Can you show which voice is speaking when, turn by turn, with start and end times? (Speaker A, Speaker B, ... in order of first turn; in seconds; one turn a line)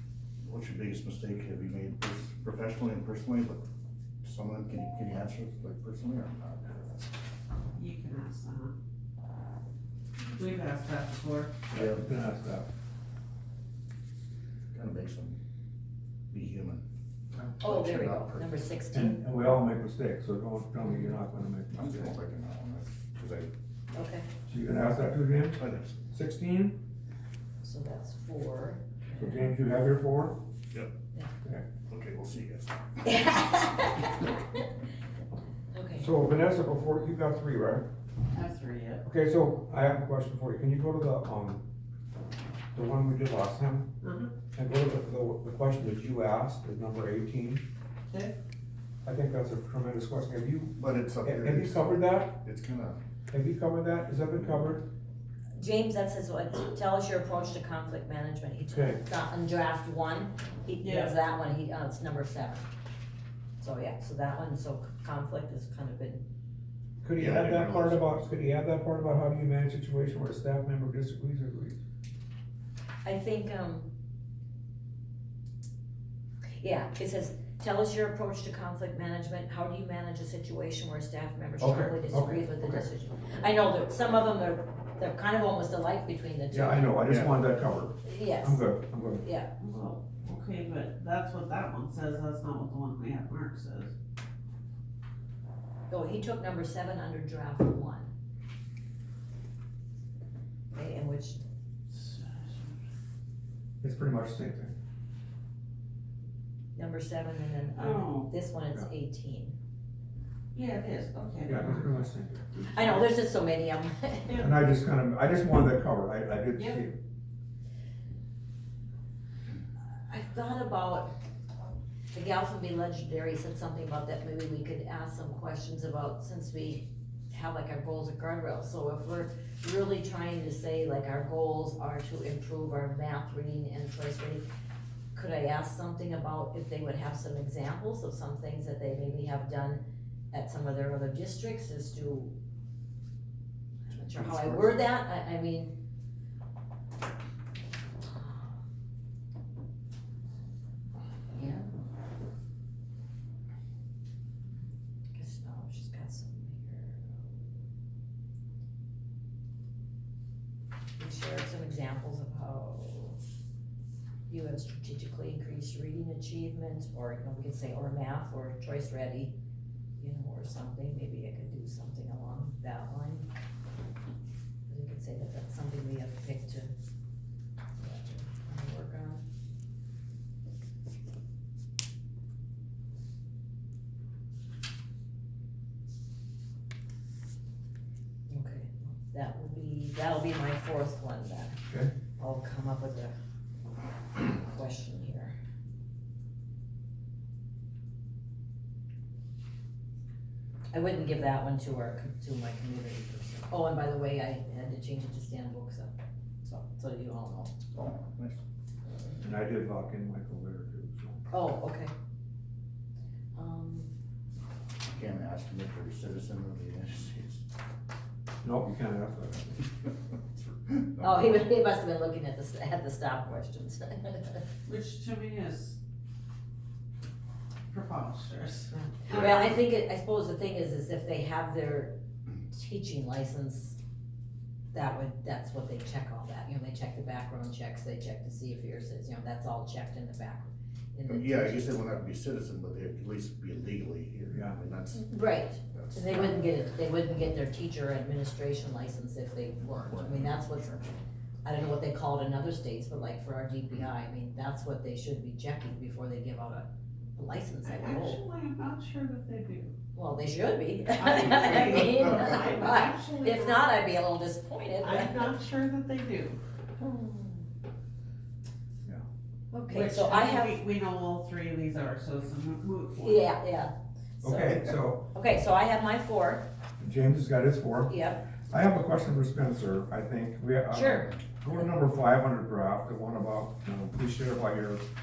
Speaker A: 0.4-3.6
Speaker A: 4.2-6.9
Speaker B: 7.8-8.7
Speaker B: 10.3-11.5
Speaker A: 11.7-12.1
Speaker C: 11.7-12.7
Speaker A: 14.7-15.4
Speaker A: 16.3-18.5
Speaker D: 17.6-19.2
Speaker C: 18.9-22.1
Speaker A: 21.8-23.5
Speaker D: 23.9-24.3
Speaker C: 24.5-26.8
Speaker A: 25.5-26.0
Speaker D: 27.6-29.4
Speaker C: 29.2-30.4
Speaker A: 31.9-32.8
Speaker D: 33.0-34.6
Speaker D: 35.7-36.1
Speaker C: 36.0-37.9
Speaker B: 38.3-39.0
Speaker C: 39.0-41.6
Speaker C: 42.7-43.9
Speaker B: 44.0-44.3
Speaker C: 44.5-47.6
Speaker C: 49.0-52.4
Speaker A: 50.8-53.0
Speaker C: 53.3-54.9
Speaker D: 55.5-62.7
Speaker C: 58.7-59.0
Speaker B: 60.8-61.1
Speaker D: 63.6-66.2
Speaker C: 67.0-71.8
Speaker A: 67.2-68.3
Speaker D: 73.0-73.9
Speaker D: 76.6-86.9
Speaker C: 81.6-82.8
Speaker C: 86.5-89.2
Speaker A: 87.0-87.4
Speaker D: 88.0-88.6
Speaker D: 89.2-89.5
Speaker B: 89.6-93.9
Speaker D: 95.9-98.1
Speaker D: 100.7-101.4
Speaker B: 101.9-102.8
Speaker C: 103.8-104.7
Speaker D: 106.7-109.5
Speaker B: 107.7-108.3
Speaker B: 110.5-111.9
Speaker C: 111.4-113.1
Speaker D: 112.7-114.4
Speaker B: 114.2-114.6
Speaker C: 114.3-117.0
Speaker B: 116.5-116.8
Speaker D: 120.0-121.1
Speaker D: 122.1-134.4
Speaker D: 135.1-142.3
Speaker D: 143.9-145.7
Speaker A: 143.9-144.8
Speaker D: 148.1-148.5
Speaker B: 151.3-151.7
Speaker D: 155.1-157.5
Speaker D: 161.0-163.2
Speaker D: 164.3-169.3
Speaker D: 170.0-173.3
Speaker D: 174.7-176.7
Speaker D: 177.8-179.2
Speaker D: 188.3-191.6
Speaker D: 192.2-193.1
Speaker D: 194.1-195.3
Speaker D: 200.7-205.9
Speaker D: 206.4-207.6
Speaker A: 207.7-208.4
Speaker C: 209.2-211.2
Speaker D: 211.3-211.9
Speaker D: 213.3-213.9
Speaker A: 214.9-217.4
Speaker C: 218.4-219.6
Speaker A: 220.4-221.5
Speaker D: 221.0-224.4
Speaker B: 224.7-225.8
Speaker B: 227.7-229.2
Speaker D: 229.0-231.9
Speaker D: 232.5-233.8
Speaker D: 234.7-241.8
Speaker A: 241.1-245.1
Speaker C: 244.3-244.6
Speaker D: 244.9-250.9
Speaker A: 245.7-246.3
Speaker A: 249.8-250.9
Speaker D: 251.4-258.2
Speaker B: 257.6-259.7
Speaker D: 259.9-265.3
Speaker B: 261.0-263.7
Speaker A: 261.8-262.1
Speaker B: 264.8-266.4
Speaker D: 266.8-267.4
Speaker D: 269.5-270.6
Speaker B: 269.7-273.2
Speaker D: 273.0-276.4
Speaker C: 274.2-275.0
Speaker C: 276.8-277.9
Speaker D: 277.9-278.2
Speaker C: 278.5-284.8
Speaker D: 280.7-281.1